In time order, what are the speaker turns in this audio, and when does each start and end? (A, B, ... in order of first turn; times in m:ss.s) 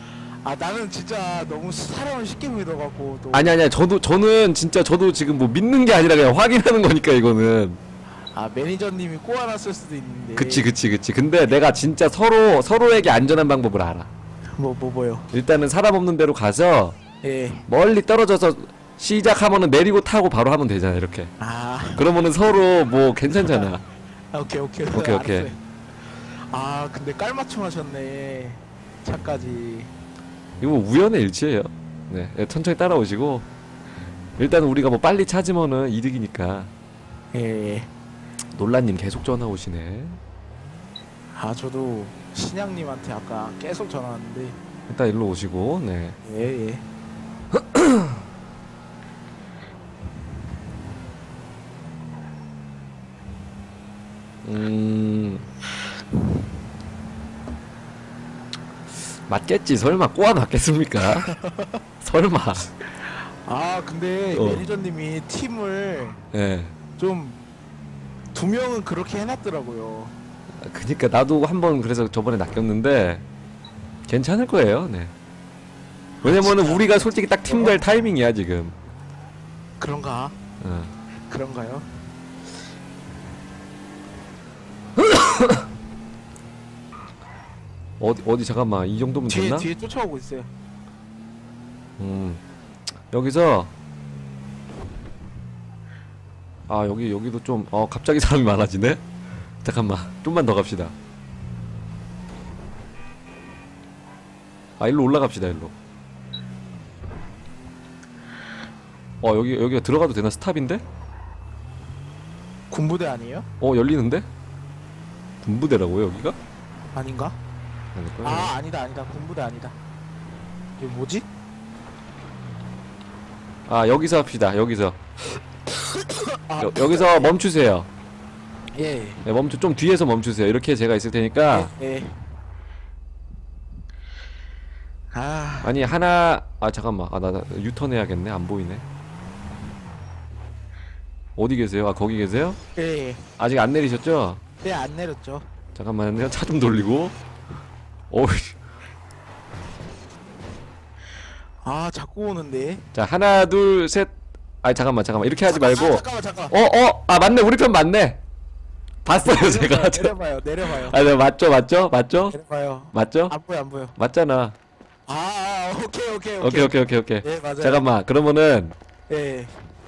0:00.4-0:03.5 A
0:03.3-0:07.8 B
0:08.3-0:10.7 A
0:10.4-0:14.1 B
0:14.6-0:15.3 A
0:15.3-0:17.0 B
0:17.2-0:17.6 A
0:17.7-0:21.3 B
0:21.4-0:22.1 A
0:22.0-0:23.8 B
0:23.3-0:23.8 A
0:24.3-0:29.9 A
0:24.9-0:25.5 B
0:30.6-0:33.4 B
0:34.4-0:36.7 B
0:37.3-0:37.9 A
0:38.6-0:40.2 B
0:41.3-0:44.6 A
0:44.9-0:46.2 B
0:46.2-0:46.8 A
0:47.6-0:48.1 B
0:54.4-0:55.4 B
0:59.2-1:01.3 B
1:01.2-1:01.8 A
1:02.0-1:02.7 B
1:03.4-1:06.2 A
1:04.3-1:04.6 B
1:06.3-1:06.7 B
1:07.0-1:07.4 A
1:08.3-1:10.1 A
1:10.6-1:13.2 B
1:14.1-1:15.1 B
1:16.2-1:17.8 A
1:16.2-1:18.7 B
1:19.8-1:20.4 A
1:20.6-1:20.9 B
1:21.3-1:22.0 A
1:25.0-1:25.6 B
1:28.0-1:29.7 B
1:29.3-1:30.5 A
1:32.0-1:32.4 B
1:33.1-1:33.7 B
1:36.7-1:39.0 B
1:39.6-1:40.9 B
1:44.8-1:45.7 B
1:49.2-1:50.8 B
1:52.7-1:53.4 A
1:53.6-1:54.2 B
1:55.4-1:56.4 B
1:56.9-1:57.3 A
1:57.9-1:58.5 B
1:58.2-1:59.7 A
2:00.8-2:01.2 A
2:03.7-2:05.0 B
2:05.8-2:07.3 A
2:06.6-2:07.9 B
2:08.7-2:09.2 A
2:09.2-2:11.7 B
2:11.5-2:12.1 A
2:15.1-2:15.7 A
2:15.6-2:18.8 B
2:21.4-2:22.6 B
2:22.8-2:23.2 A
2:23.4-2:24.4 B
2:24.6-2:25.4 A
2:25.7-2:27.2 B
2:28.1-2:28.6 B
2:31.6-2:32.8 A
2:32.9-2:34.1 B
2:34.6-2:38.2 B
2:35.4-2:36.6 A
2:39.0-2:40.1 B
2:39.1-2:41.0 A
2:40.7-2:42.4 B
2:42.3-2:43.9 A
2:42.9-2:43.3 B
2:44.0-2:44.6 B
2:45.1-2:47.8 A
2:46.4-2:48.7 B
2:49.1-2:49.6 A